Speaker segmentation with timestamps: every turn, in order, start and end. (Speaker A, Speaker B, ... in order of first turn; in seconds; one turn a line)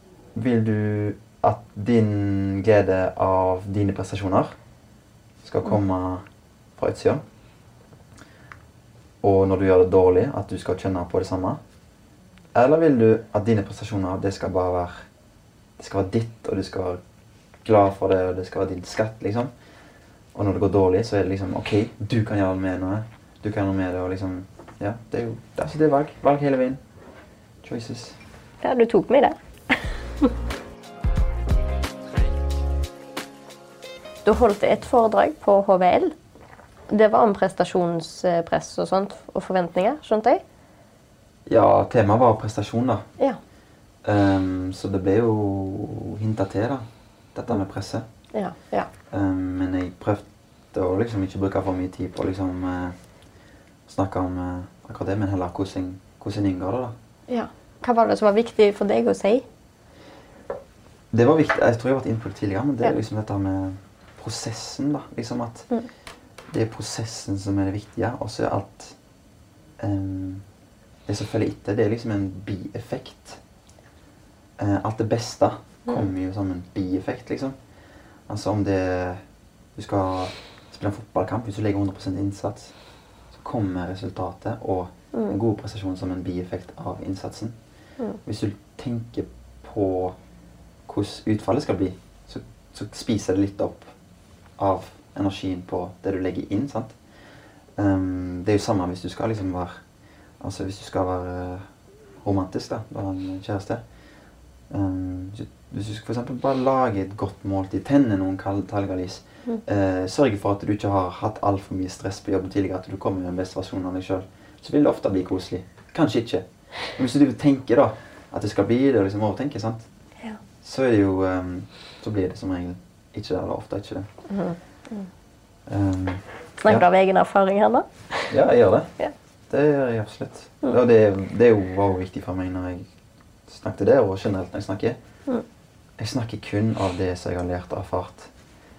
Speaker A: 0.3-4.6
Speaker A: 5.4-6.2
Speaker A: 6.8-7.2
Speaker A: 9.2-11.6
Speaker A: 12.5-15.1
Speaker A: 15.8-17.0
Speaker A: 17.6-19.5
Speaker A: 20.3-26.8
Speaker A: 27.6-28.2
Speaker B: 28.6-30.3
Speaker B: 34.2-36.1
Speaker B: 36.9-40.4
Speaker A: 41.5-43.0
Speaker A: 44.0-48.1
Speaker B: 48.3-48.9
Speaker A: 49.1-53.0
Speaker A: 53.9-57.0
Speaker B: 57.3-59.5
Speaker A: 61.1-65.7
Speaker A: 66.5-69.0
Speaker A: 69.8-70.4
Speaker A: 71.1-73.4
Speaker A: 74.6-77.6
Speaker A: 78.3-79.2
Speaker A: 79.8-82.7
Speaker A: 83.3-87.6
Speaker A: 88.2-90.2
Speaker A: 90.9-93.9
Speaker A: 94.6-97.0
Speaker A: 97.8-99.8
Speaker A: 100.4-101.7
Speaker A: 102.2-103.8
Speaker A: 104.7-119.9
Speaker A: 120.6-124.1
Speaker B: 124.3-125.1
Speaker A: 125.7-126.9
Speaker B: 126.6-128.3
Speaker A: 128.3-128.9
Speaker A: 129.5-132.9
Speaker A: 133.5-135.0
Speaker A: 136.0-138.3